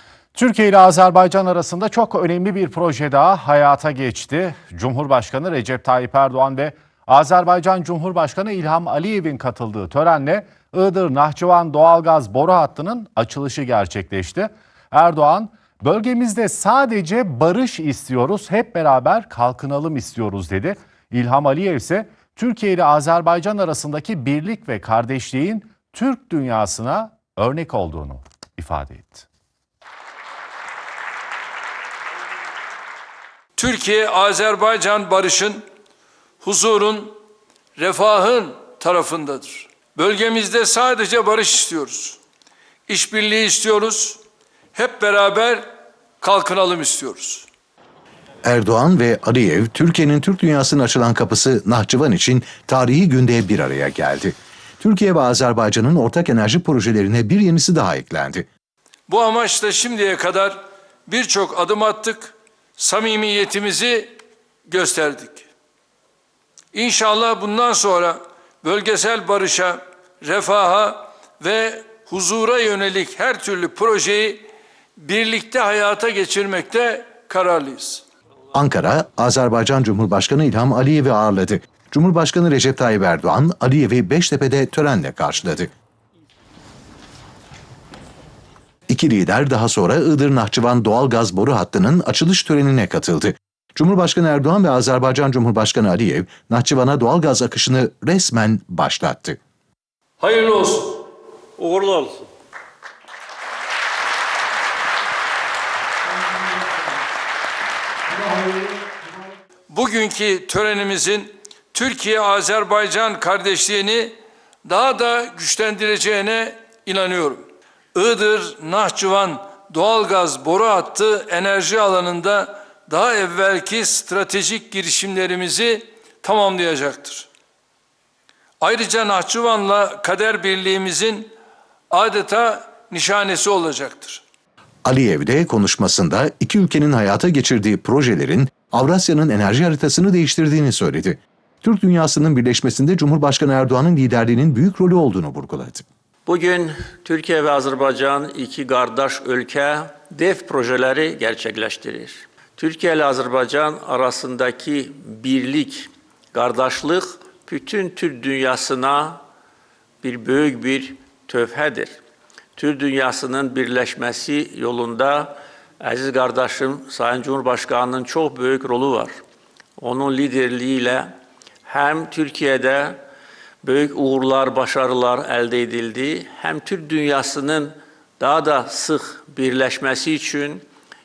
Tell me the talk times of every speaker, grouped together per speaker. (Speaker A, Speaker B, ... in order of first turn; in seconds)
Speaker A: 0.3-29.3
Speaker B: 33.6-35.6, 36.4-37.2, 37.8-42.2, 42.9-44.2, 44.7-45.6, 46.2-47.5, 59.1-64.1, 64.7-65.4, 66.7-74.4, 75.0-78.0, 100.2-101.0, 109.7-127.3, 128.6-131.3, 131.9-134.2
Speaker C: 48.4-58.5, 78.5-85.7, 88.9-99.4, 134.8-145.8
Speaker D: 101.6-102.3, 146.2-159.2, 160.0-162.0, 162.6-169.1, 169.8-171.1, 171.7-173.0, 173.6-180.7